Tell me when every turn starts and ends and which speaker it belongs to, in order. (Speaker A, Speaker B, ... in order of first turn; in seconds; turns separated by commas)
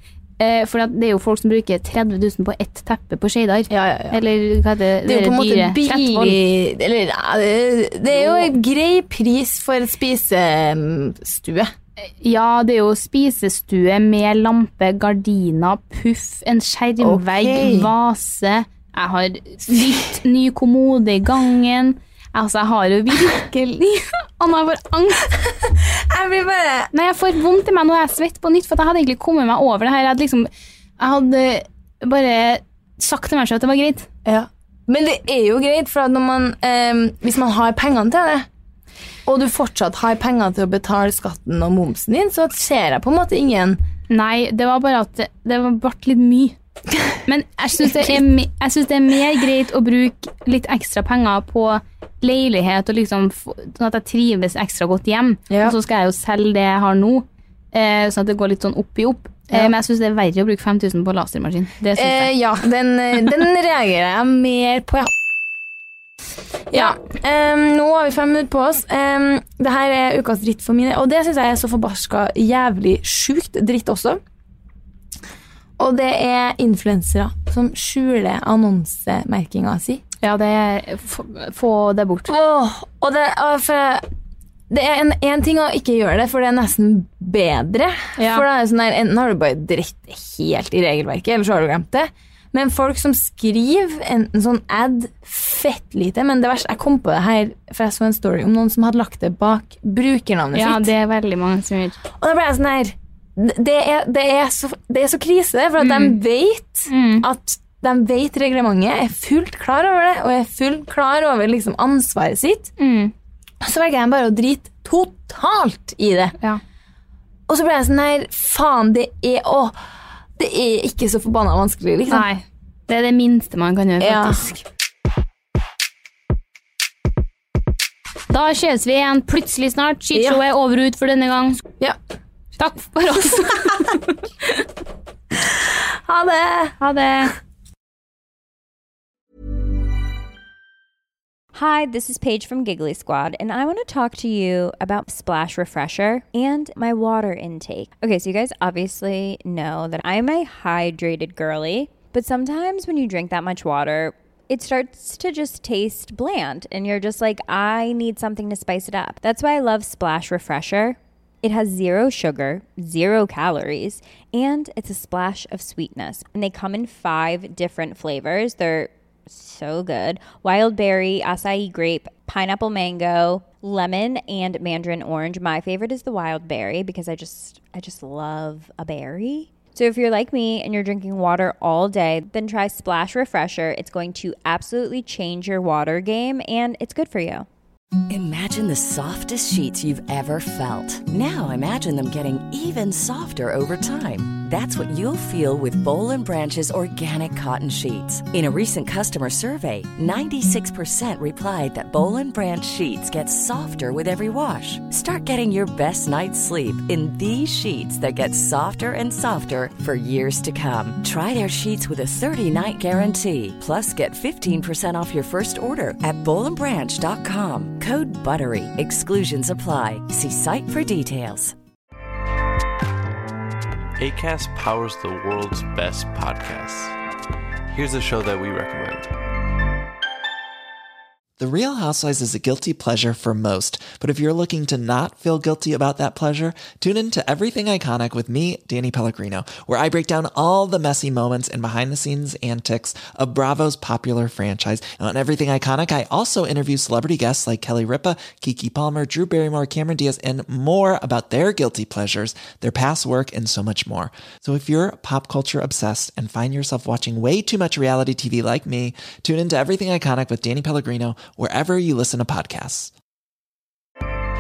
Speaker A: 0.4-6.4, Speaker B: 3.7-4.2, Speaker B: 5.0-11.7, Speaker A: 8.1-8.5, Speaker A: 12.2-25.3, Speaker B: 17.0-17.9, Speaker B: 25.6-26.9, Speaker A: 26.9-34.1, Speaker B: 34.2-38.5, Speaker B: 39.3-43.8, Speaker A: 44.1-46.6, Speaker A: 47.3-62.4, Speaker B: 55.5-55.8, Speaker B: 62.0-65.1, Speaker B: 66.7-74.2, Speaker B: 75.8-80.0, Speaker A: 80.2-82.3, Speaker B: 82.3-84.1, Speaker B: 84.7-100.9, Speaker A: 88.2-88.5, Speaker A: 100.5-102.0, Speaker B: 102.1-112.7, Speaker A: 105.8-106.2, Speaker A: 106.9-107.3, Speaker A: 112.8-113.1, Speaker B: 113.6-116.4, Speaker B: 117.5-119.8, Speaker B: 120.4-122.3, Speaker A: 122.1-124.6, Speaker B: 124.0-124.5, Speaker A: 128.3-131.6, Speaker B: 130.1-130.4, Speaker A: 132.6-134.1, Speaker B: 133.2-134.0, Speaker B: 135.6-136.8, Speaker A: 136.8-137.3, Speaker C: 141.5-187.5, Speaker D: 188.1-221.6, Speaker E: 224.0-227.0, Speaker E: 227.7-229.1, Speaker F: 231.4-262.9